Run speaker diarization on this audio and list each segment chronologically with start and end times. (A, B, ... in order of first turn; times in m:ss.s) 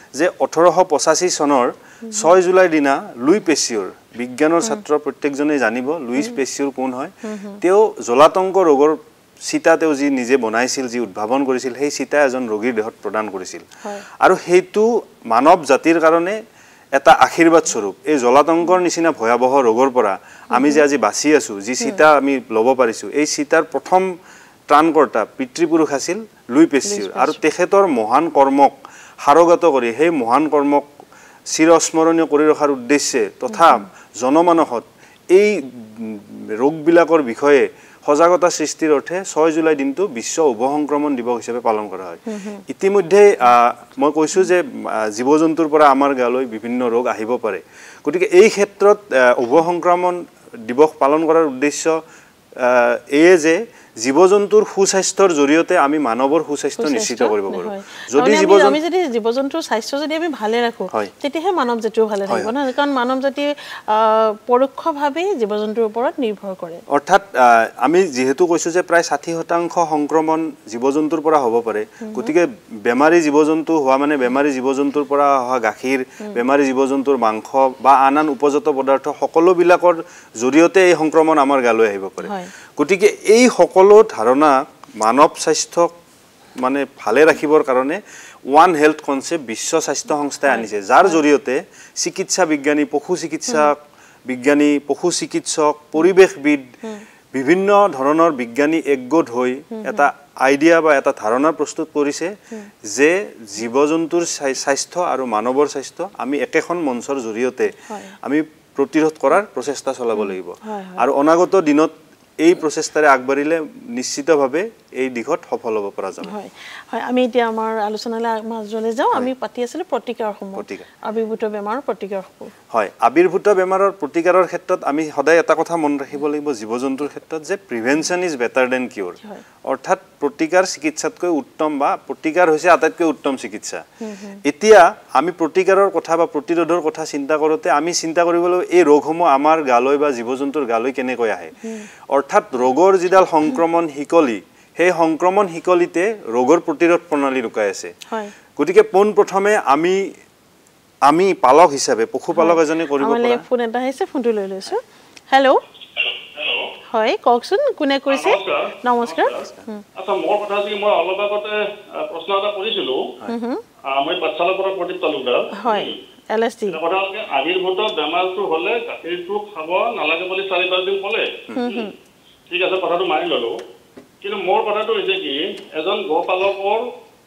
0:00.1-0:13.7 A
0:07.2-0:07.6 B
0:14.2-0:16.4 A
0:17.0-0:24.1 A
0:20.5-0:20.8 B
0:24.7-0:30.9 A
0:26.9-0:27.4 B
0:31.5-0:52.0 A
0:42.3-0:42.6 B
0:52.6-0:58.8 A
0:56.8-1:06.8 B
1:06.9-1:25.9 A
1:12.0-1:12.3 B
1:22.2-1:22.5 B
1:26.6-1:36.7 A
1:30.5-1:31.2 B
1:37.3-1:56.4 A
1:39.7-1:40.1 B
1:47.8-1:48.2 B
1:50.6-1:51.1 B
1:56.2-2:02.5 B
2:00.6-2:00.9 A
2:02.7-2:13.8 A
2:14.0-2:14.4 B
2:14.4-2:21.6 A
2:21.6-2:21.9 B
2:22.1-2:27.9 A
2:28.6-2:30.1 A
2:31.0-2:33.4 A
2:32.4-2:35.6 B
2:36.0-2:36.7 C
2:36.9-2:39.8 B
2:38.1-2:43.0 C
2:43.3-2:43.6 B
2:43.9-2:46.0 C
2:45.6-2:46.8 B
2:46.7-2:51.9 C
2:51.6-2:51.9 B
2:52.5-2:53.6 C
2:54.2-2:56.9 C